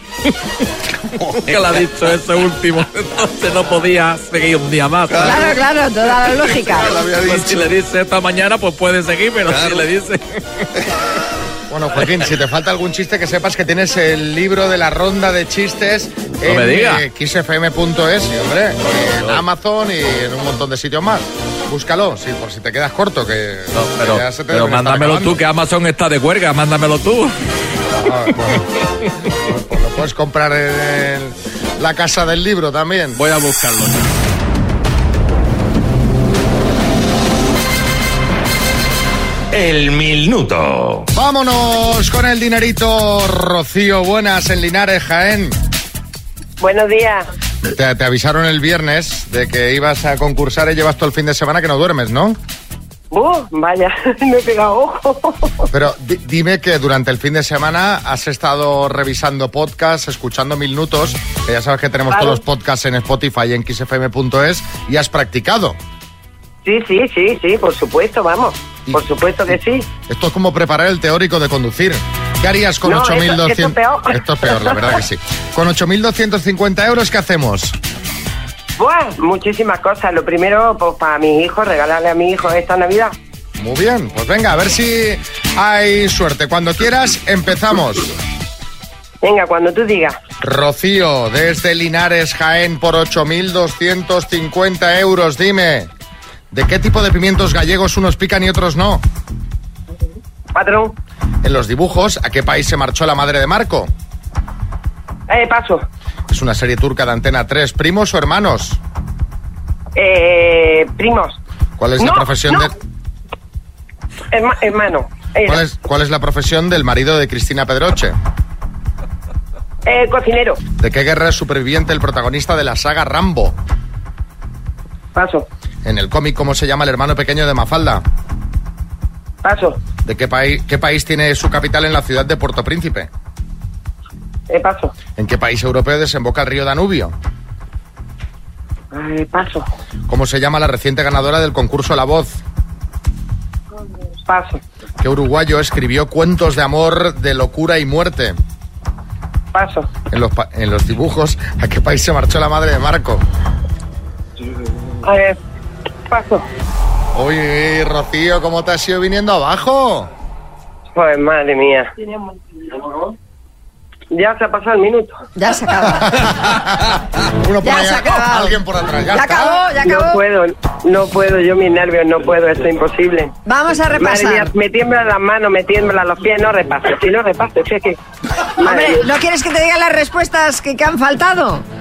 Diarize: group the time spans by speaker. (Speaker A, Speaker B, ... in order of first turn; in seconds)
Speaker A: 1.2-1.8, 5.1-5.5, 6.3-7.7, 9.5-9.8, 39.5-41.1
Speaker B: 1.4-5.5, 7.2-10.2, 16.4-17.0, 19.1-19.4, 23.7-27.3, 33.1-34.1
Speaker C: 5.2-7.0, 165.3-166.2, 167.6-168.6, 169.1-170.2, 173.4-174.5, 178.6-181.6
Speaker D: 11.7-25.4, 27.9-28.6, 29.4-33.2, 41.1-45.5, 47.7-52.4, 55.7-65.8, 68.9-69.5, 70.1-77.8, 83.6-88.1, 90.4-95.9, 96.5-99.0, 101.4-103.9, 106.3-108.8, 111.8-112.7, 115.4-118.2, 120.8-123.5, 125.8-128.0, 130.0-133.1, 135.2-137.1, 140.1-142.4, 145.0-148.4, 150.1-153.2, 157.1-160.1, 165.9-169.6
Speaker E: 46.6-47.3, 53.1-55.4, 62.1-62.4, 66.6-69.8, 72.8-74.0, 78.8-83.1, 89.2-90.2, 100.5-100.9, 105.3-105.8, 110.0-111.3, 112.0-112.7, 114.3-115.6, 119.8-120.6, 125.1-125.5, 129.4-129.8, 134.5-134.9, 138.9-139.7, 144.3-144.6, 149.5-149.9, 155.0-155.3, 156.1-156.4, 160.9-161.9, 164.1-165.1, 169.8-173.3, 173.9-178.0, 178.6-179.0